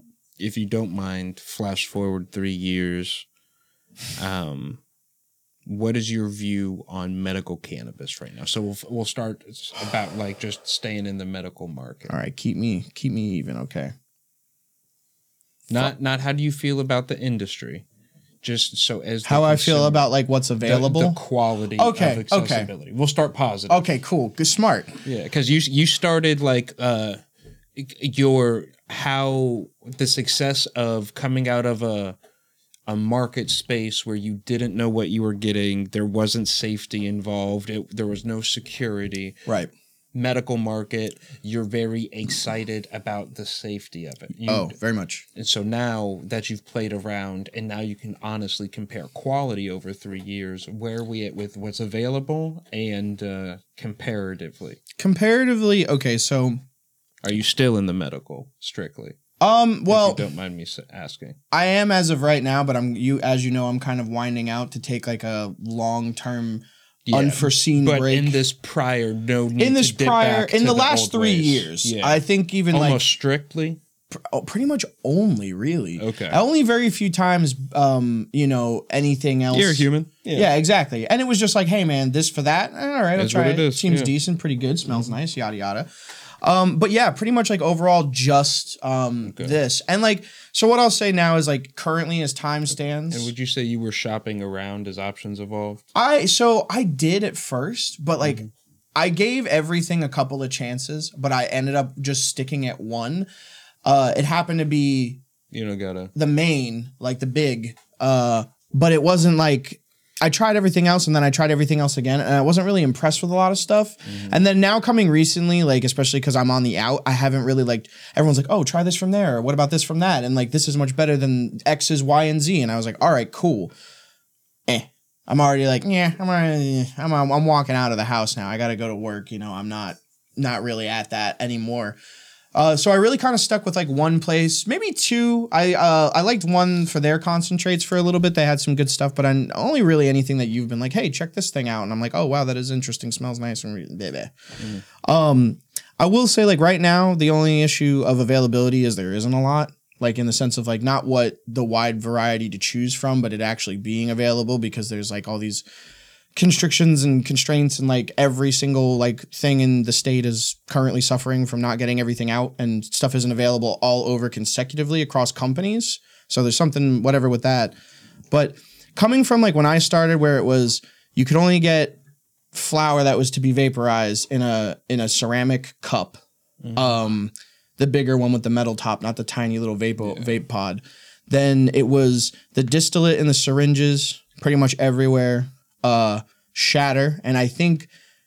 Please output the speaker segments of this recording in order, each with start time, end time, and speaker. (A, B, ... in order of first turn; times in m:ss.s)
0:00.4-0:03.2 A
0:04.2-0:04.8 A
0:05.6-0:12.1 A
0:12.1-0:13.9 B
0:15.7-0:17.8 A
0:18.4-0:20.1 A
0:19.2-0:21.2 B
0:20.6-0:23.9 A
0:21.8-0:22.7 B
0:23.7-0:25.0 B
0:25.0-0:27.2 A
0:27.7-0:32.2 A
0:32.9-0:39.4 A
0:40.1-0:44.7 A
0:44.4-0:45.2 B
0:45.3-0:54.8 A
0:55.0-0:56.6 B
0:57.2-0:59.2 A
0:59.4-1:00.2 B
0:59.9-1:01.4 A
1:01.5-1:08.4 B
1:07.1-1:13.8 A
1:09.6-1:13.0 B
1:14.1-1:25.9 B
1:16.0-1:16.4 A
1:19.5-1:20.5 A
1:23.2-1:24.1 A
1:26.4-1:33.3 B
1:29.2-1:29.6 A
1:33.1-1:35.8 A
1:35.9-1:38.4 B
1:38.2-1:38.5 A
1:38.9-1:43.3 B
1:43.8-1:45.2 B
1:45.5-1:46.1 A
1:46.1-2:03.7 B
1:54.0-1:54.4 A
2:04.7-2:12.0 B
2:12.5-2:24.3 B
2:25.0-2:35.6 B
2:36.3-2:47.8 B
2:48.3-2:52.0 B
2:52.5-2:56.2 B
2:56.6-2:57.0 A
2:56.7-3:07.9 B
3:00.0-3:00.3 A